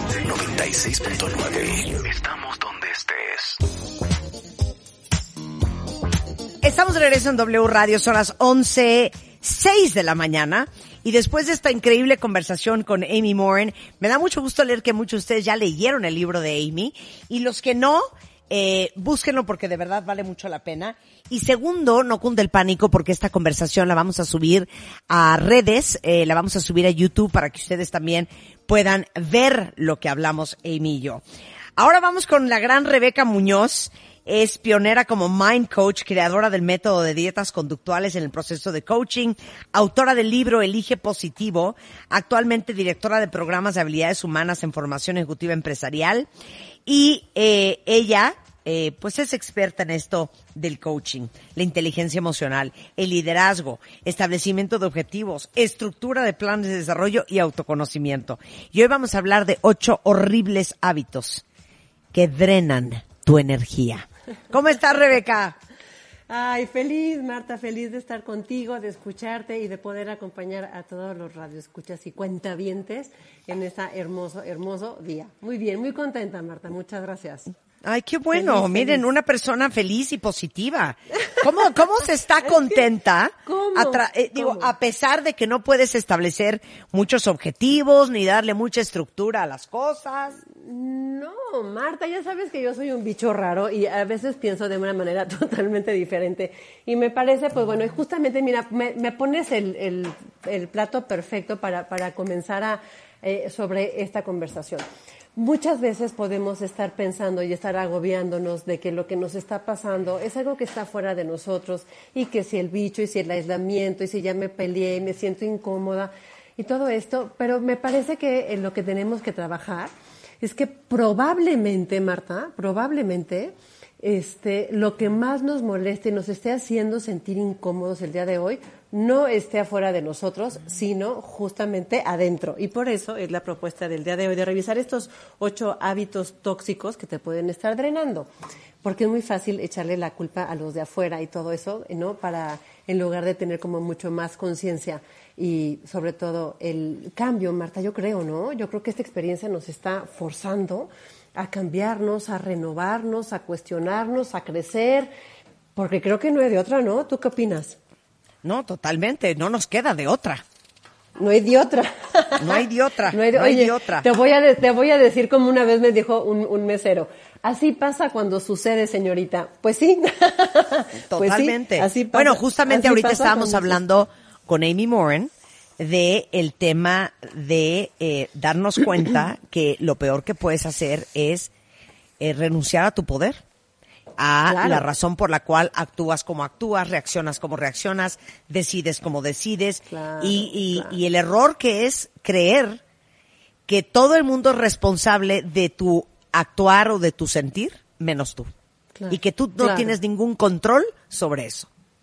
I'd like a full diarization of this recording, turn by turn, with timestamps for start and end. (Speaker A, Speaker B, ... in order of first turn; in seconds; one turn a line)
Speaker A: 0.2-3.6
Speaker B: 6.6-31.2
Speaker B: 31.8-46.3
Speaker B: 46.9-61.4
Speaker B: 62.1-65.5
Speaker C: 66.3-77.5
Speaker B: 77.8-90.4
Speaker C: 78.3-79.1
Speaker C: 83.4-84.7
Speaker C: 90.5-104.8
Speaker C: 105.3-138.3
Speaker C: 138.8-155.1
Speaker C: 155.8-157.8
Speaker B: 158.4-160.4
Speaker C: 161.2-173.8
Speaker B: 162.4-164.1
Speaker B: 171.1-181.5
Speaker B: 182.2-183.4
Speaker B: 184.2-192.8
Speaker C: 184.4-184.9
Speaker C: 189.9-191.0
Speaker B: 193.7-198.5
Speaker C: 199.0-199.9
Speaker B: 199.1-201.7